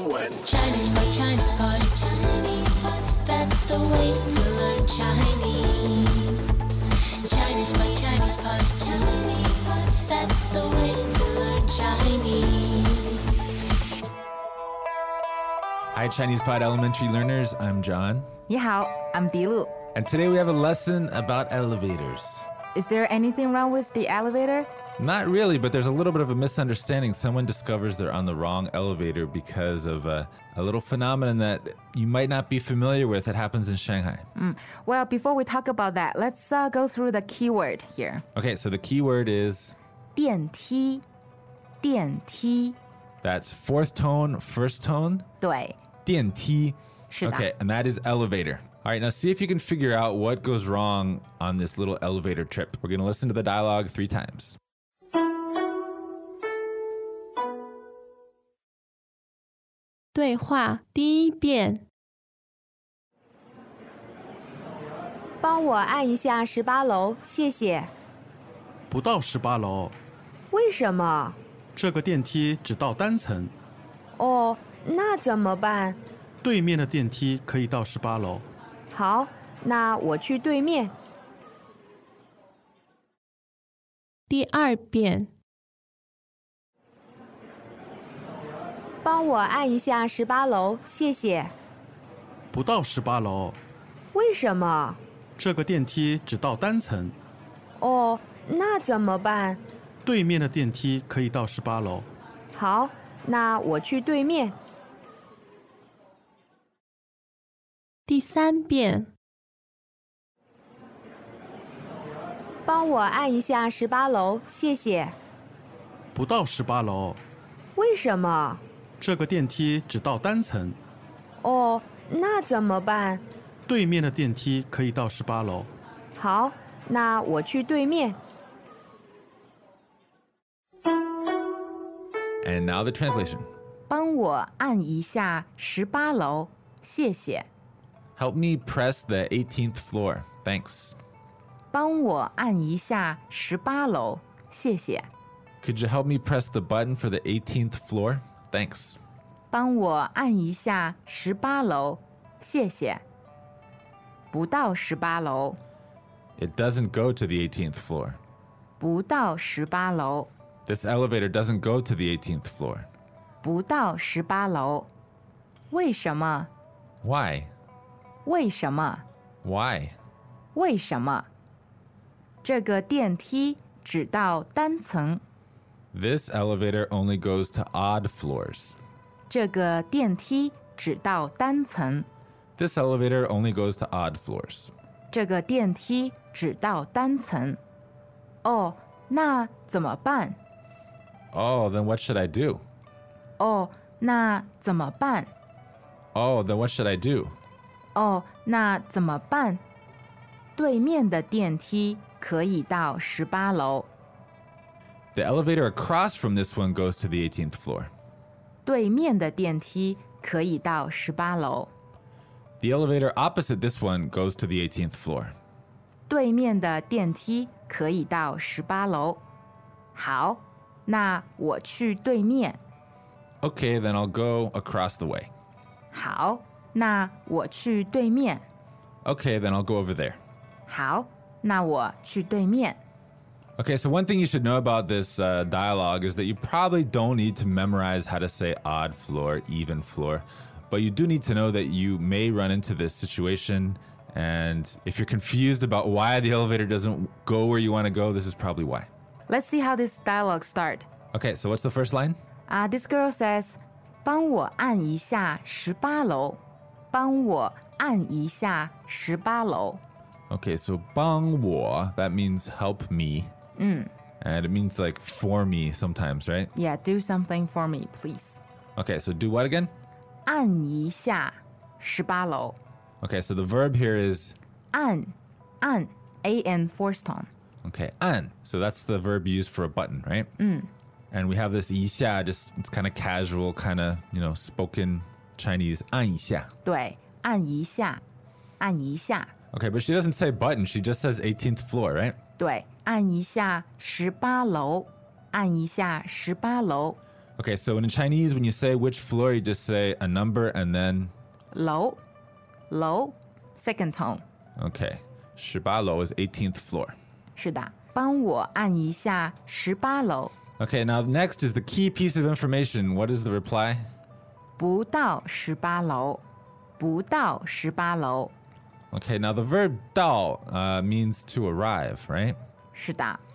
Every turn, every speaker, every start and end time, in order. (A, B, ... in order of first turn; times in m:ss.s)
0:00.5-0:06.6 A
0:07.2-0:13.2 A
0:15.9-0:18.3 B
0:18.5-0:19.7 C
0:19.9-0:22.4 B
0:22.7-0:24.7 C
0:25.0-0:34.2 B
0:34.4-0:38.2 C
0:38.3-0:39.7 B
0:40.2-0:41.0 C
0:41.8-0:42.8 C
0:43.2-0:45.2 B
0:45.4-0:45.8 C
0:46.0-0:54.6 B
0:47.1-0:47.5 C
1:00.1-1:01.8 D
1:05.4-1:07.9 E
1:08.9-1:10.0 F
1:10.5-1:11.4 E
1:11.8-1:13.5 F
1:14.2-1:16.0 E
1:16.4-1:18.5 F
1:18.9-1:20.9 E
1:24.3-1:25.3 D
1:29.0-1:31.5 E
1:32.5-1:33.6 F
1:34.1-1:35.0 E
1:35.4-1:37.2 F
1:37.8-1:39.6 E
1:40.0-1:42.1 F
1:42.5-1:44.6 E
1:48.1-1:49.1 D
1:52.6-1:55.2 E
1:56.1-1:57.2 F
1:57.8-1:58.6 E
1:59.0-2:00.8 F
2:01.4-2:03.2 E
2:03.7-2:05.7 F
2:06.2-2:08.2 E
2:12.4-2:13.5 B
2:13.9-2:17.5 C
2:18.2-2:20.9 B
2:21.7-2:25.1 C
2:25.6-2:29.0 B
2:29.5-2:33.0 C
2:34.3-2:35.6 C
2:36.4-2:38.2 B
2:38.8-2:40.3 C
2:40.6-2:42.9 B
2:43.4-2:44.9 C
2:45.7-2:46.5 C
2:47.0-2:47.5 B
2:48.2-2:49.0 C
2:49.4-2:50.0 B
2:50.5-2:51.3 C
2:52.4-2:55.2 C
2:55.9-2:58.8 B
2:59.3-3:02.1 C
3:02.6-3:04.7 B
3:05.1-3:07.6 C
3:08.4-3:10.4 C
3:11.3-3:12.6 B
3:13.4-3:15.3 C
3:16.1-3:17.3 B
3:17.9-3:19.6 C
3:20.6-3:23.9 C
3:25.1-3:27.9 B
3:28.6-3:31.7 C
3:32.6-3:35.3 B
3:36.1-3:39.2 C
3:39.9-3:42.6 C
3:43.4-3:45.3 B
3:45.9-3:48.4 C
3:49.0-3:50.2 B
3:50.7-3:52.8 C
3:53.6-4:08.9 B
4:09.3-4:10.9 C
4:11.1-4:12.2 B
4:12.5-4:16.4 C
4:16.9-4:19.8 C
4:20.3-4:23.3 B
4:23.6-4:23.9 C
4:24.2-4:26.5 B
4:26.5-4:28.4 C
4:28.8-4:29.7 B
4:30.3-4:32.6 C
4:33.0-4:34.3 B
4:34.7-4:37.3 C
4:37.6-4:40.3 B
4:40.4-4:40.7 C
4:41.1-4:46.5 B
4:46.6-4:48.0 C
4:48.6-4:49.3 C
4:49.5-4:52.2 B
4:52.4-4:57.0 C
4:57.4-5:01.1 B
5:01.5-5:02.0 C
5:02.7-5:04.2 C
5:04.6-5:06.9 B
5:07.4-5:10.3 C
5:10.6-5:13.9 B
5:14.6-5:16.2 C
5:16.8-5:18.3 C
5:18.9-5:22.4 B
5:22.7-5:23.2 C